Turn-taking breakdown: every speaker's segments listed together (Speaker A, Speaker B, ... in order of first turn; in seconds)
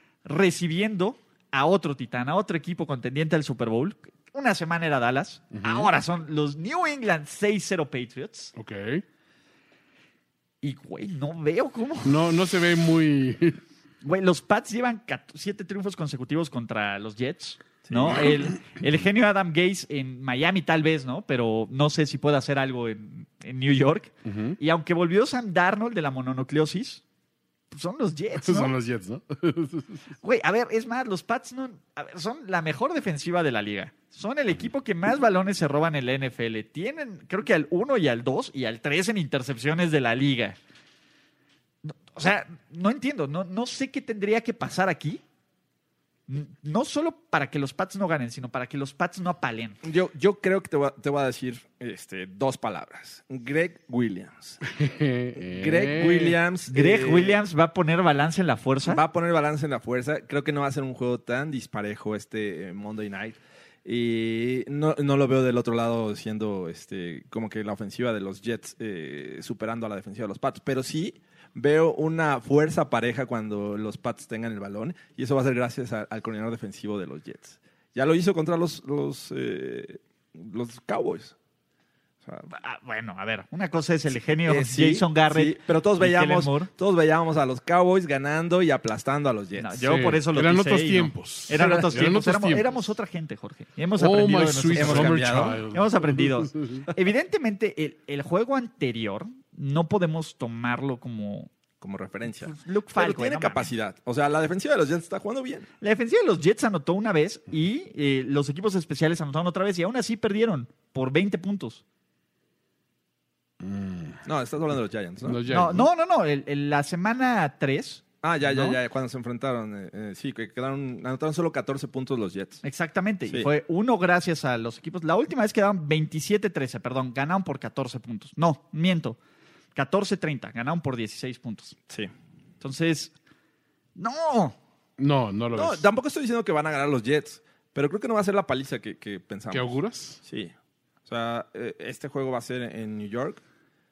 Speaker A: 0.2-8.5, 10.6-12.2, 14.0-27.0, 27.7-28.7, 30.2-40.6, 41.8-45.2, 46.3-49.8, 56.7-59.0, 82.5-86.7, 89.6-101.5, 102.4-103.7, 105.8-111.8, 115.5-118.8, 122.6-129.2, 129.7-131.8, 132.6-133.1, 133.9-134.6
Speaker B: 5.5-5.9, 8.6-9.0, 12.0-13.6, 24.2-24.6, 28.4-30.0, 54.6-56.4, 89.8-92.8, 94.0-96.9, 113.6-114.2, 115.2-115.9, 135.0-135.8, 139.5-140.2
Speaker C: 17.9-18.3, 49.8-54.6, 55.4-57.4, 58.8-81.3, 84.5-89.8, 91.5-92.1, 94.7-95.6, 101.8-105.7, 114.2-115.5, 118.2-122.6, 135.5-140.5, 141.1-143.4